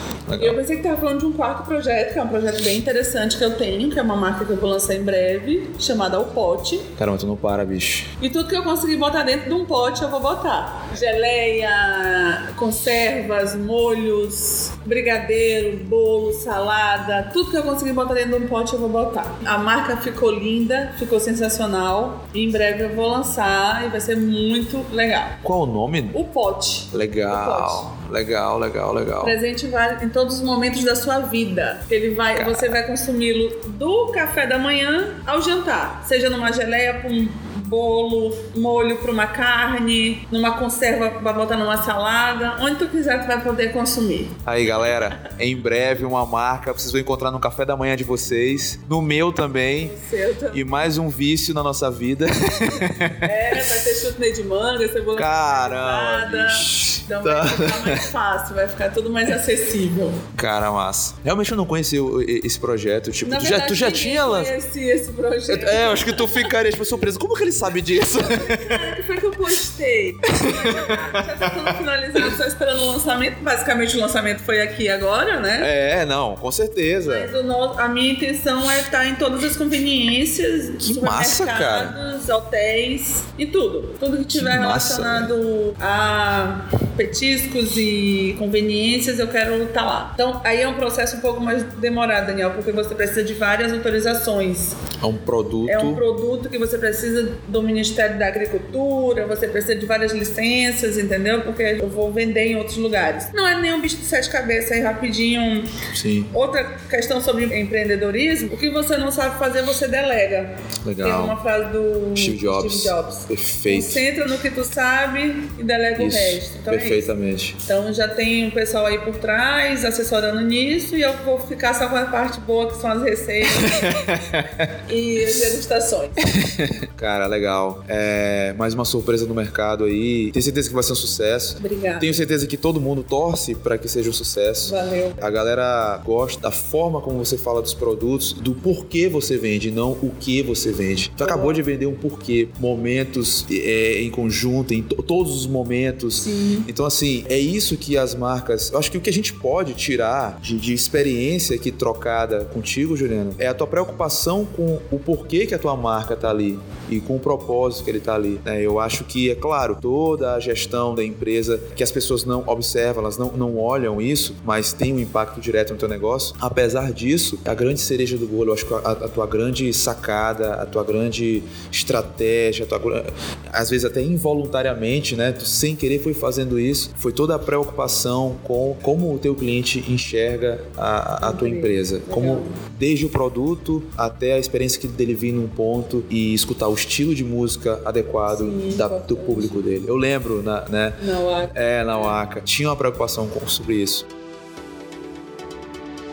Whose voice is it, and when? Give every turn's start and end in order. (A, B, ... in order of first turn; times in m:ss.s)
0:00.3-0:00.6 A
0:00.4-0:06.9 B
0:07.0-0:08.1 A
0:08.2-0:25.4 B
0:25.4-0:26.2 A
0:26.1-0:27.9 B
0:26.9-0:29.4 A
0:29.2-0:44.4 B
0:32.3-0:32.7 A
0:44.4-0:50.0 A
0:49.8-0:50.9 B
0:50.5-0:53.8 A
0:53.2-1:00.2 B
0:55.2-0:58.1 A
1:00.4-1:04.6 A
1:03.2-1:06.5 B
1:05.5-1:09.0 A
1:08.2-1:15.7 B
1:10.3-1:11.5 A
1:15.6-1:17.3 A
1:16.9-1:34.8 B
1:20.8-1:22.0 A
1:24.3-1:25.3 A
1:35.0-1:36.0 A
1:35.7-1:45.8 B
1:45.9-1:46.3 A
1:46.3-1:57.1 B
1:50.8-1:51.4 A
1:52.2-1:54.0 A
1:56.0-1:57.6 A
1:57.6-2:04.2 B
2:03.5-2:04.7 A
2:04.9-2:06.4 B
2:06.2-3:14.1 A
2:11.6-2:12.2 B
2:14.6-2:15.2 B
2:21.2-2:21.6 B
2:26.2-2:26.7 B
3:01.2-3:02.6 B
3:08.3-3:09.6 B
3:11.0-3:12.2 B